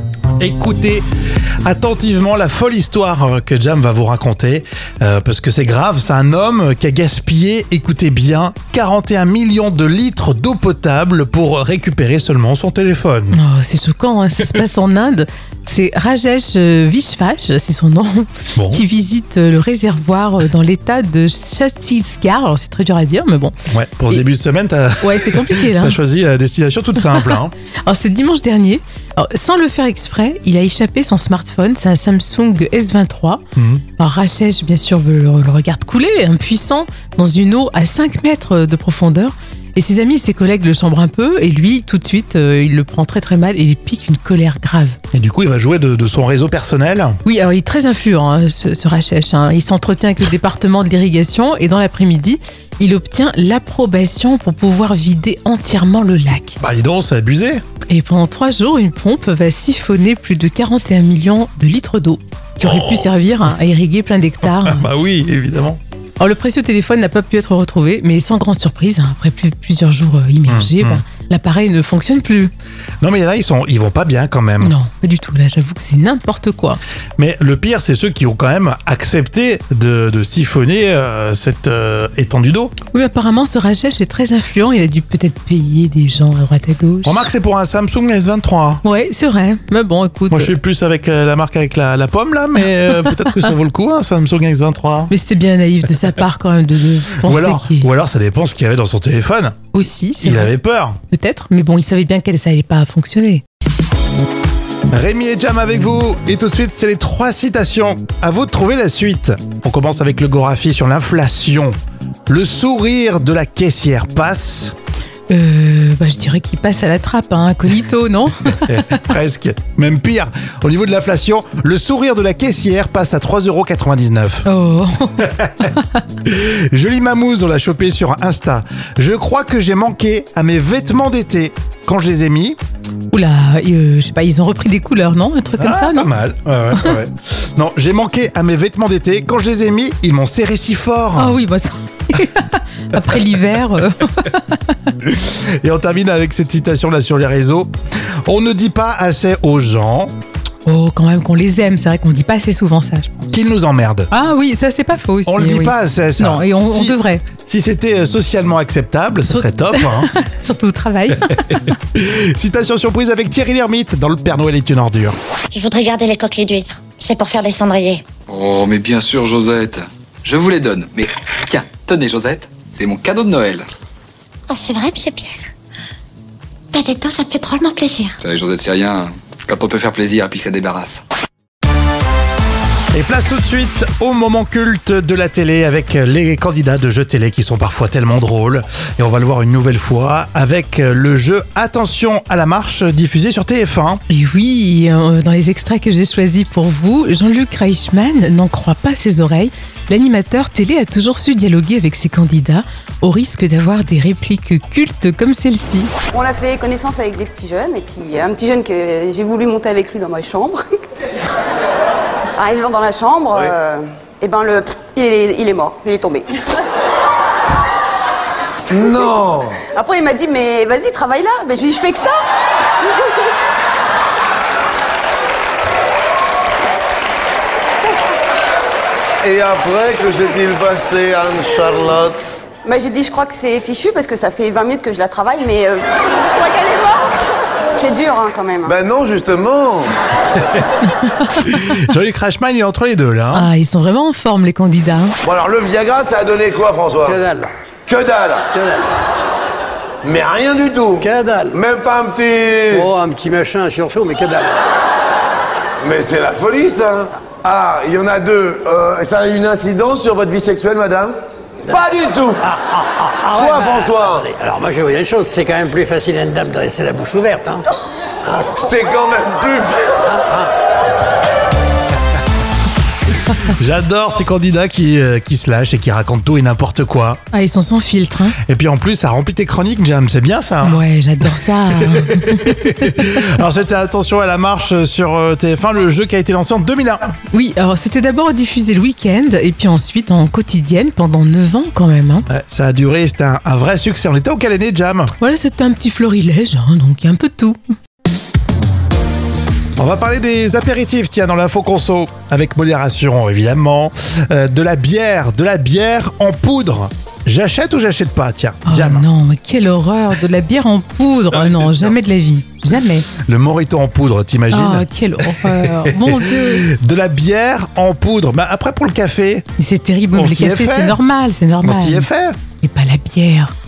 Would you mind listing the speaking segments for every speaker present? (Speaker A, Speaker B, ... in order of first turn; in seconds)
Speaker A: 0.4-1.1, 1.6-13.4, 18.6-18.8, 23.7-27.5, 33.6-33.8, 45.1-47.2, 56.6-57.6, 62.6-63.1, 64.4-65.8, 70.5-71.0, 73.0-74.7, 77.2-82.7, 87.0-88.8, 90.3-95.1, 97.2-99.7, 100.2-101.0, 104.9-111.8, 112.3-114.7, 118.7-124.5, 126.2-132.6, 135.6-141.4, 145.0-147.7, 148.3-150.1, 153.3-154.1, 155.3-160.1, 161.3-165.2, 182.9-194.0, 241.4-243.5, 273.4-277.2, 278.4-280.8, 281.8-287.1, 292.3-295.1, 299.8-309.1, 311.3-311.9, 313.1-319.5, 320.1-321.0, 321.6-322.4
Speaker B: 13.3-23.5, 25.0-26.0, 27.1-33.4, 34.0-45.0, 47.2-56.6, 57.9-64.8, 66.2-72.5, 74.6-76.8, 82.9-87.3, 88.8-90.5, 95.1-97.9, 99.7-100.5, 101.1-103.4, 115.3-119.0, 124.5-125.8, 133.1-136.1, 141.2-144.6, 150.7-153.3, 154.1-157.3, 159.3-161.3, 194.1-205.9, 241.1-241.6, 243.3-245.2, 277.3-278.4, 280.6-282.6, 287.3-292.3, 295.2-297.6, 308.7-313.1, 314.5-316.6, 319.6-322.1, 322.6-323.5
Speaker C: 165.5-168.1, 174.5-175.5, 176.7-178.2
Speaker D: 168.3-173.7, 178.2-181.0
Speaker E: 206.1-210.6, 212.4-216.4, 219.8-222.2, 232.7-238.7
Speaker F: 218.7-219.6, 229.2-232.4, 238.7-239.9, 245.2-247.2, 247.9-248.5, 250.0-252.9, 255.8-262.5, 263.3-264.3, 268.4-270.0
Speaker G: 247.0-247.5, 248.5-248.8, 251.0-251.6, 252.7-254.6, 262.4-267.6